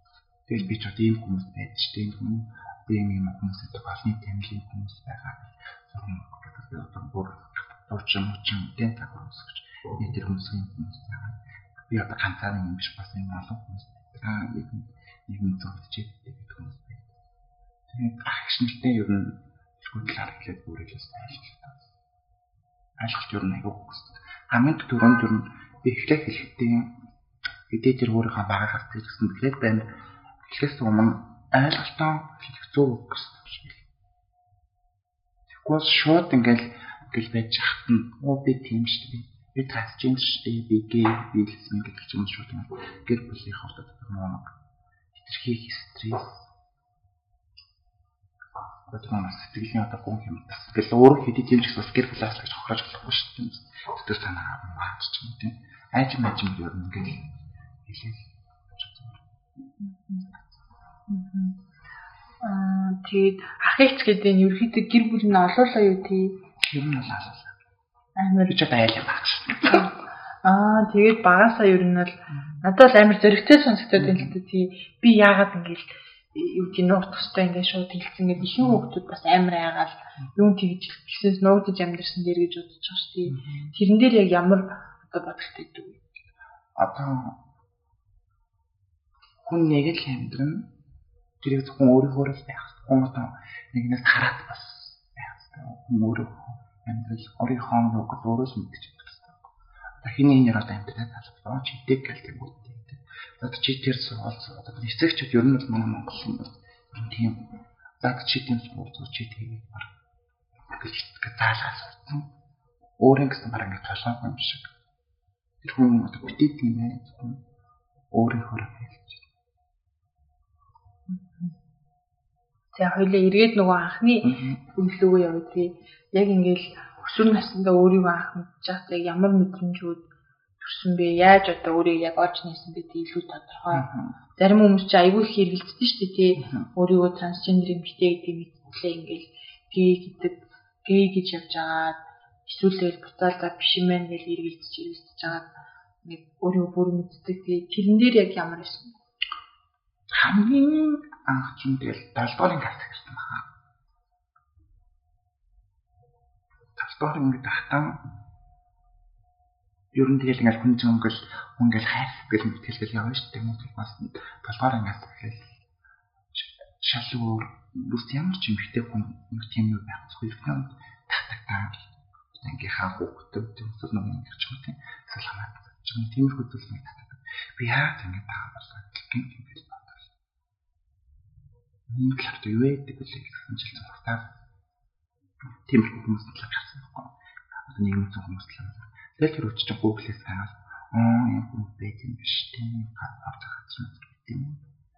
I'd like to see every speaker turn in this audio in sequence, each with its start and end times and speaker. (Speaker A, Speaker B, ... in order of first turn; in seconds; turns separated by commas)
Speaker A: 0.5-17.1, Speaker A: 17.9-21.9, Speaker A: 23.0-26.9, Speaker A: 27.7-29.9, Speaker A: 30.5-33.9, Speaker A: 35.5-44.5, Speaker A: 45.1-46.5, Speaker A: 48.9-57.3, Speaker A: 57.8-59.2, Speaker B: 59.8-60.3, Speaker B: 61.1-61.6, Speaker B: 62.4-66.4, Speaker A: 66.6-67.6, Speaker B: 68.2-68.6, Speaker A: 68.5-69.8, Speaker B: 69.7-86.0, Speaker A: 72.3-72.6, Speaker A: 74.0-74.4, Speaker A: 83.3-83.7, Speaker A: 86.8-87.4, Speaker A: 89.4-90.7, Speaker A: 91.4-99.5, Speaker A: 100.0-107.5, Speaker A: 108.0-109.9, Speaker A: 110.7-112.3, Speaker A: 113.0-114.7, Speaker A: 115.6-117.4, Speaker A: 118.1-119.2, Speaker B: 121.1-121.5, Speaker B: 122.7-130.1, Speaker A: 124.2-124.6, Speaker B: 130.6-149.0, Speaker A: 133.7-134.2, Speaker A: 136.4-136.7, Speaker A: 150.1-153.5, Speaker A: 156.8-158.0, Speaker A: 159.9-165.6, Speaker A: 166.3-180.1, Speaker A: 181.9-184.3, Speaker A: 185.4-194.6